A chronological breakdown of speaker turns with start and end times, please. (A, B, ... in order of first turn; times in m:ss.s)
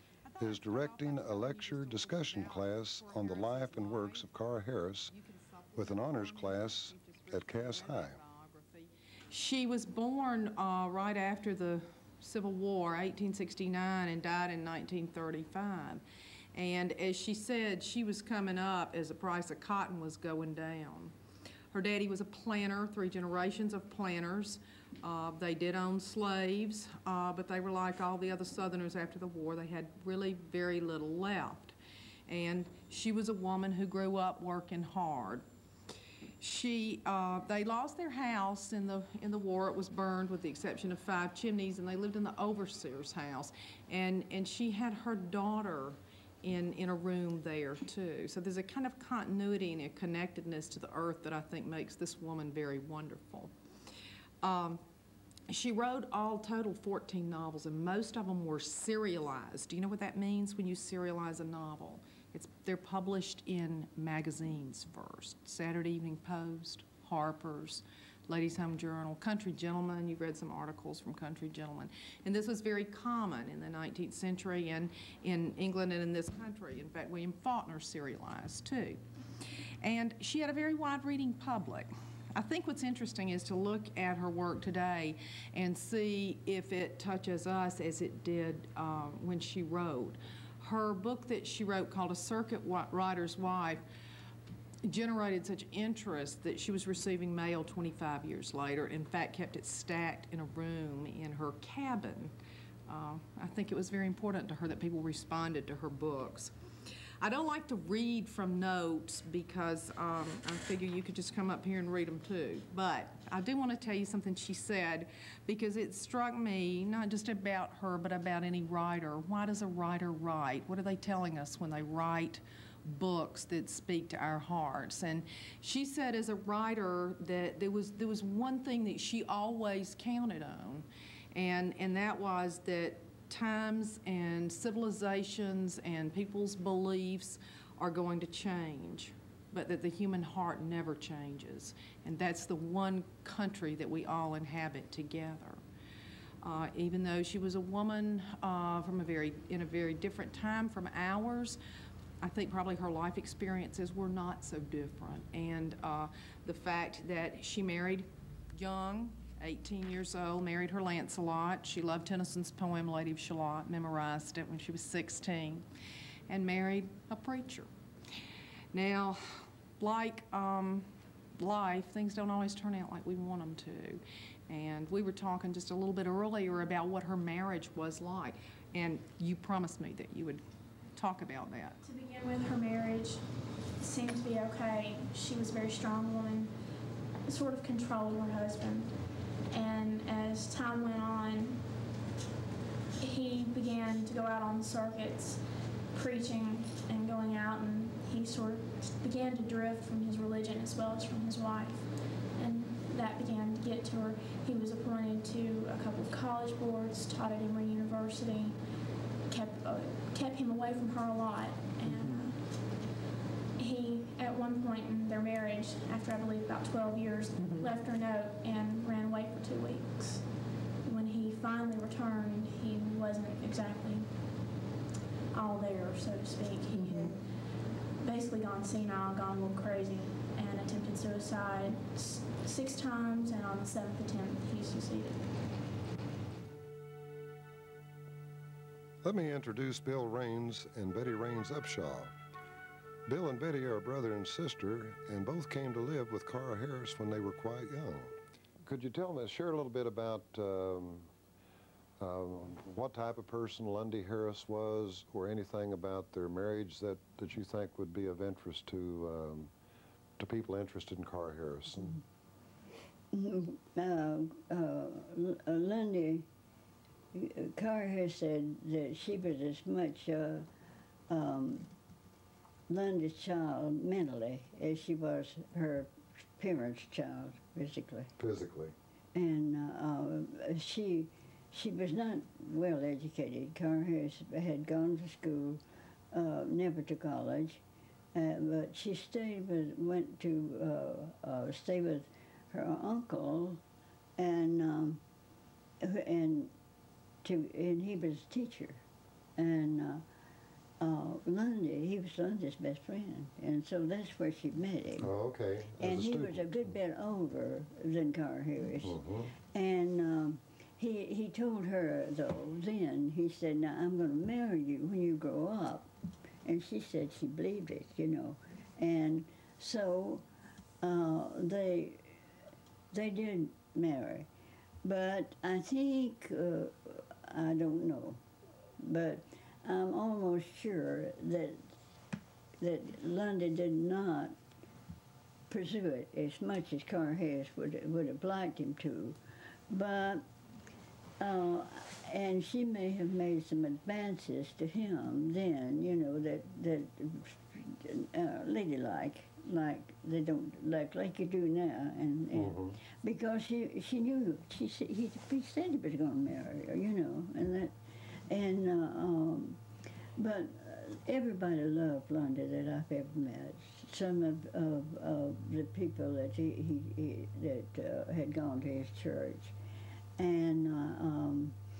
0:00.2-0:04.3 A
0:00.4-0:05.1 B
0:05.1-0:16.0 A
0:05.8-0:08.2 B
0:16.5-0:21.1 A
0:21.7-0:31.7 A
0:32.3-0:35.4 A
0:36.4-0:53.5 A
0:54.4-0:54.8 A
0:55.5-1:19.0 A
1:19.8-1:33.8 A
1:34.8-1:42.3 A
1:42.9-1:46.5 A
1:47.2-2:25.6 A
2:26.4-2:31.6 A
2:32.2-2:45.6 A
2:46.3-2:47.7 A
2:48.7-3:00.4 A
3:00.9-3:01.8 A
3:01.8-3:03.2 C
3:03.8-3:06.5 C
3:07.2-3:08.9 C
3:09.5-3:11.6 C
3:13.0-3:28.6 C
3:29.3-3:32.4 C
3:31.8-3:32.3 A
3:33.6-3:40.2 C
3:37.4-3:37.7 A
3:40.8-3:44.1 C
3:45.3-3:47.3 C
3:46.7-3:47.2 A
3:48.0-3:55.3 C
3:59.0-4:02.1 B
4:03.1-4:11.1 B
4:12.0-4:19.5 B
4:20.2-4:22.0 B
4:23.1-4:26.3 D
4:27.1-4:30.5 D
4:31.1-4:31.7 D
4:32.7-4:38.1 D
4:38.2-4:38.7 B
4:39.1-4:45.6 D
4:46.1-4:47.6 D
4:48.1-4:53.6 D
4:54.2-4:55.0 D
4:55.8-4:56.5 D
4:57.2-4:58.8 D
4:59.4-5:00.0 D
5:00.8-5:05.1 D
5:05.0-5:06.5 B
5:05.8-5:09.0 D
5:08.8-5:09.3 B
5:09.5-5:15.9 D
5:16.4-5:20.2 D
5:20.8-5:22.2 D
5:22.9-5:24.3 D
5:24.8-5:28.2 D
5:28.8-5:31.7 D
5:32.6-5:34.4 D
5:35.5-5:39.2 D
5:39.7-5:40.2 D
5:41.2-5:59.6 D
5:52.3-5:52.8 B
6:00.2-6:09.5 D
6:10.2-6:11.6 D